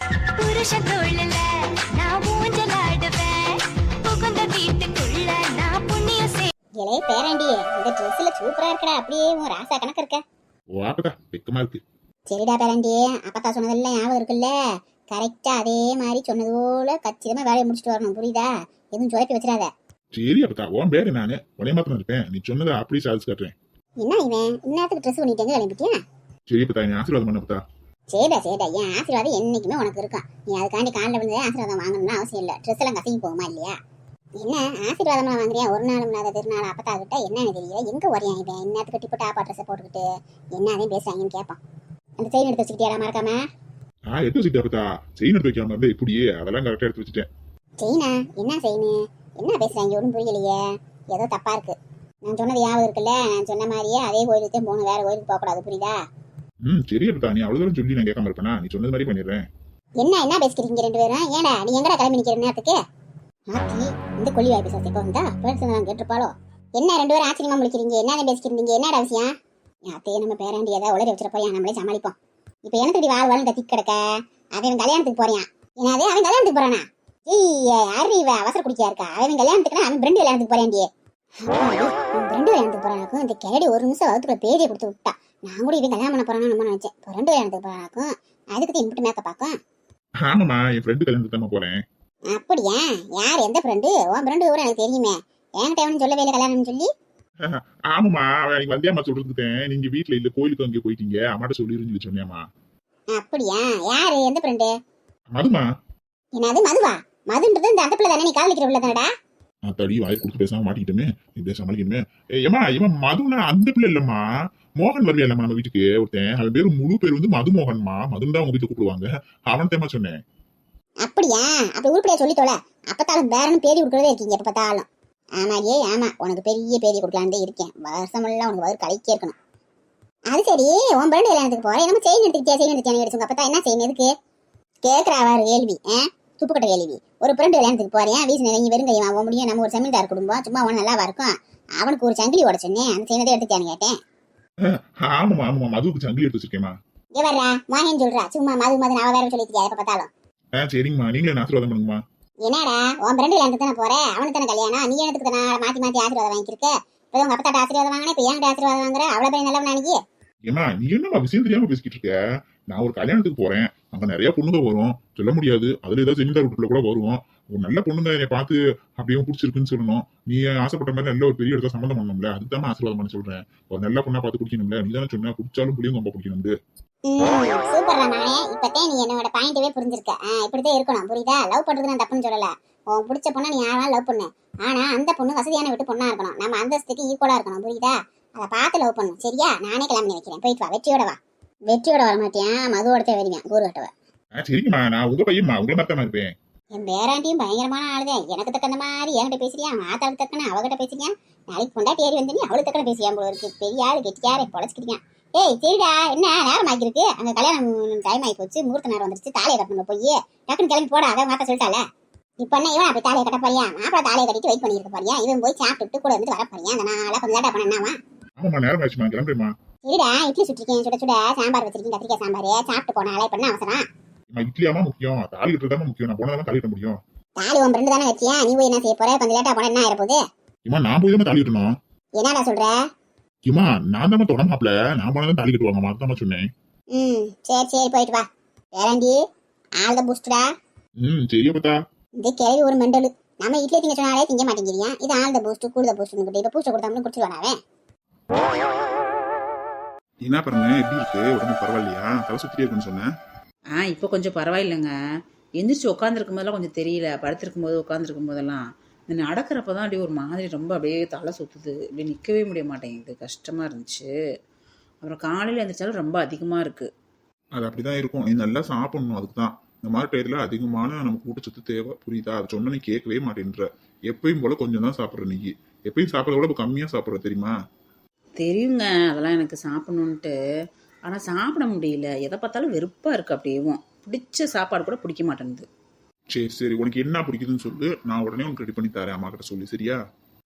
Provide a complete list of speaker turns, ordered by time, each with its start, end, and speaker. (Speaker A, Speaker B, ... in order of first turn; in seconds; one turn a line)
Speaker A: 0.4-6.5
Speaker B: 6.8-10.2
Speaker C: 10.7-11.8
Speaker B: 12.3-14.5
Speaker B: 15.1-19.7
Speaker C: 20.1-23.5
Speaker B: 24.0-26.0
Speaker C: 26.5-27.6
Speaker B: 28.1-33.7
Speaker B: 34.4-41.6
Speaker B: 42.2-43.4
Speaker C: 44.1-47.3
Speaker B: 47.8-51.7
Speaker B: 52.2-56.0
Speaker C: 56.6-59.4
Speaker B: 60.0-62.8
Speaker B: 63.5-69.3
Speaker B: 69.9-72.1
Speaker B: 72.7-74.0
Speaker B: 74.5-80.8
Speaker B: 81.4-89.5
Speaker C: 90.2-91.8
Speaker B: 92.3-96.9
Speaker C: 97.5-102.4
Speaker B: 103.1-104.7
Speaker C: 105.3-105.6
Speaker B: 106.3-109.1
Speaker C: 109.7-114.2
Speaker C: 114.8-120.1
Speaker B: 121.0-124.9
Speaker B: 125.4-129.3
Speaker B: 130.3-134.1
Speaker B: 134.8-143.9
Speaker C: 145.0-146.7
Speaker B: 147.2-150.1
Speaker C: 150.6-152.0
Speaker B: 152.4-160.0
Speaker C: 160.4-162.1
Speaker C: 162.7-176.5
Speaker B: 177.1-191.2
Speaker B: 191.7-193.9
Speaker C: 194.4-196.3
Speaker B: 196.7-211.8
Speaker B: 212.4-218.0
Speaker C: 218.4-219.5
Speaker B: 219.8-223.8
Speaker C: 224.3-227.0
Speaker B: 227.4-230.2
Speaker C: 230.7-231.7
Speaker B: 232.2-232.7
Speaker C: 233.5-236.4
Speaker B: 236.9-238.2
Speaker B: 238.8-239.2
Speaker B: 239.8-240.4
Speaker C: 241.0-241.7
Speaker B: 242.2-247.6
Speaker C: 250.2-253.1
Speaker D: 253.8-254.9
Speaker D: 255.6-264.1
Speaker D: 265.0-266.9
Speaker C: 267.6-277.5
Speaker D: 278.4-280.3
Speaker D: 281.1-285.6
Speaker C: 286.3-290.0